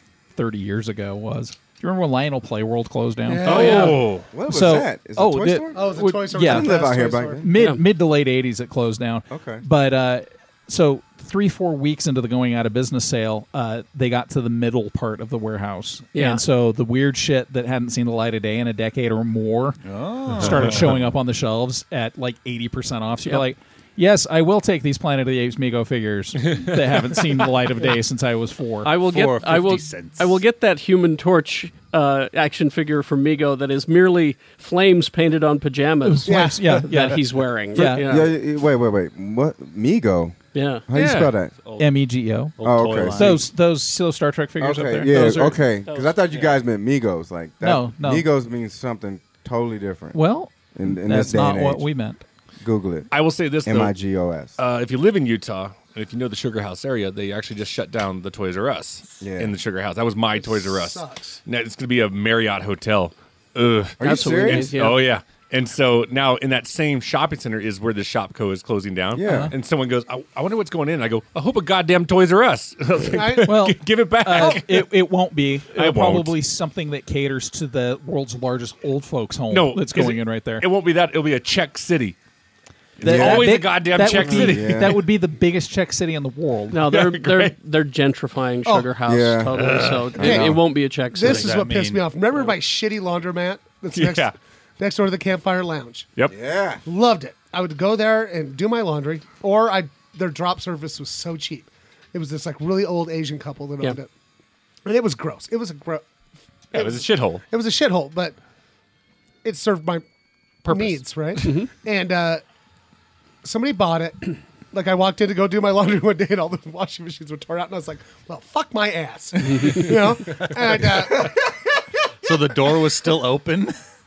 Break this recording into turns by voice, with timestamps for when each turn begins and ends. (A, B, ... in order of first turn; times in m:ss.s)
0:00.4-0:06.9 A
0:03.3-0:04.1 B
0:03.4-0:04.3 C
0:03.6-0:04.0 D
0:04.3-0:07.5 E
0:05.7-0:07.5 B
0:07.4-0:28.9 A
0:07.5-0:07.8 D
0:09.3-0:09.6 E
0:16.1-0:16.4 D
0:19.8-0:21.0 F
0:28.8-0:38.4 D
0:28.9-0:30.4 F
0:36.0-0:37.2 A
0:36.3-0:36.8 B
0:37.7-0:38.1 A
0:37.9-0:40.4 E
0:40.5-0:41.4 D
0:40.9-0:41.5 E
0:41.6-0:41.9 F
0:41.8-0:45.6 A
0:42.6-0:43.4 F
0:42.6-0:43.4 E
0:44.6-0:50.2 E
0:45.9-0:46.2 D
0:47.6-0:48.3 A
0:50.1-0:52.2 A
0:50.7-0:51.9 E
0:52.6-0:53.1 E
0:53.1-0:53.9 C
0:53.6-0:54.6 E
0:54.6-1:14.9 C
0:59.2-0:59.6 E
1:00.3-1:01.4 B
1:04.0-1:04.7 E
1:04.0-1:05.1 D
1:09.2-1:09.5 E
1:09.2-1:09.5 A
1:13.0-1:13.6 B
1:13.5-1:20.7 A
1:15.7-1:16.4 C
1:19.5-1:22.2 C
1:23.0-1:24.9 C
1:23.0-1:26.8 A
1:23.0-1:23.6 E
1:24.3-1:25.1 E
1:26.7-1:31.6 D
1:26.9-1:27.6 C
1:29.1-1:30.6 E
1:30.2-1:36.1 B
1:31.2-1:32.1 F
1:33.9-1:34.3 C
1:36.3-1:36.8 E
1:36.8-1:44.1 B
1:44.8-1:46.0 B
1:46.7-1:47.4 C
1:46.7-1:48.4 B
1:49.4-1:50.0 B
1:50.7-1:52.4 B
1:50.7-1:51.7 D
1:53.4-2:01.4 B
1:59.5-1:59.8 D
2:02.2-2:03.8 F